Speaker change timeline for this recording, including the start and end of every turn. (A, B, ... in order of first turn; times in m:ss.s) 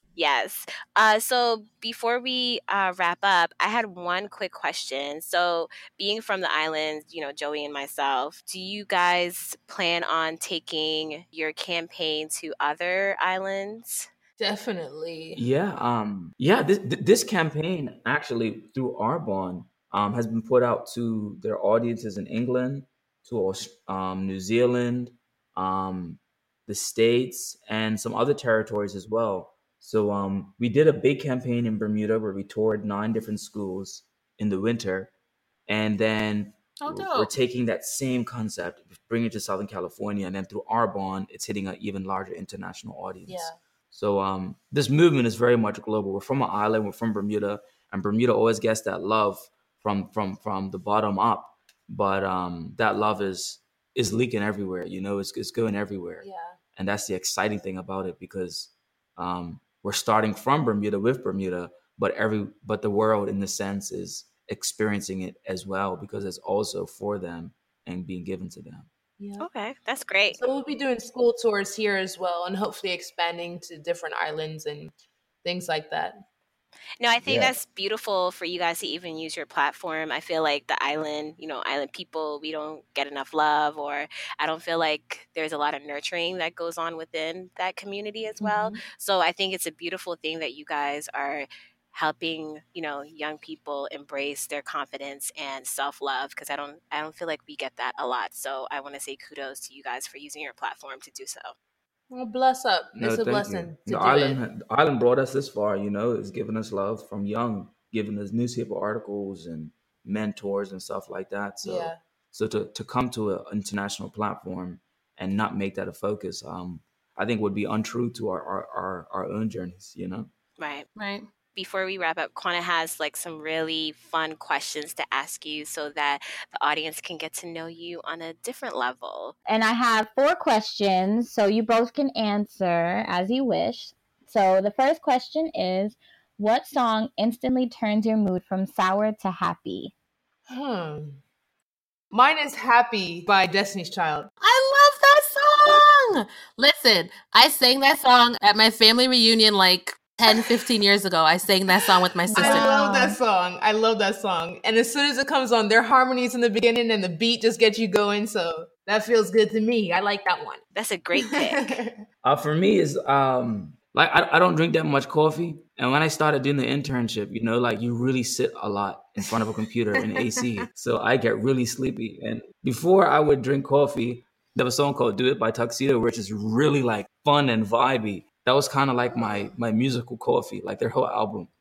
0:00.2-0:14.1 A
0:14.4-0:15.4 B
0:15.3-0:35.1 C
0:35.7-1:08.9 C
0:36.8-0:37.3 D
0:43.2-0:43.6 B
0:56.2-0:56.6 B
1:09.2-1:09.5 B
1:09.4-1:10.4 A
1:10.3-1:14.9 B
1:15.4-1:16.2 B
1:17.0-1:41.5 A
1:17.2-1:17.5 C
1:28.4-1:28.8 B
1:42.1-1:44.4 B
1:43.0-2:00.3 C
1:51.6-1:52.0 B
2:00.6-2:00.9 A
2:01.0-2:01.3 D
2:01.5-2:09.3 A
2:09.5-2:19.9 E
2:20.5-2:21.2 B
2:22.1-2:24.3 B
2:24.4-2:32.7 D
2:32.3-2:33.2 E
2:32.3-2:40.6 B
2:40.7-2:41.8 A
2:41.2-2:42.0 B
2:42.2-3:01.5 C
2:50.0-2:50.4 B
2:59.1-2:59.5 B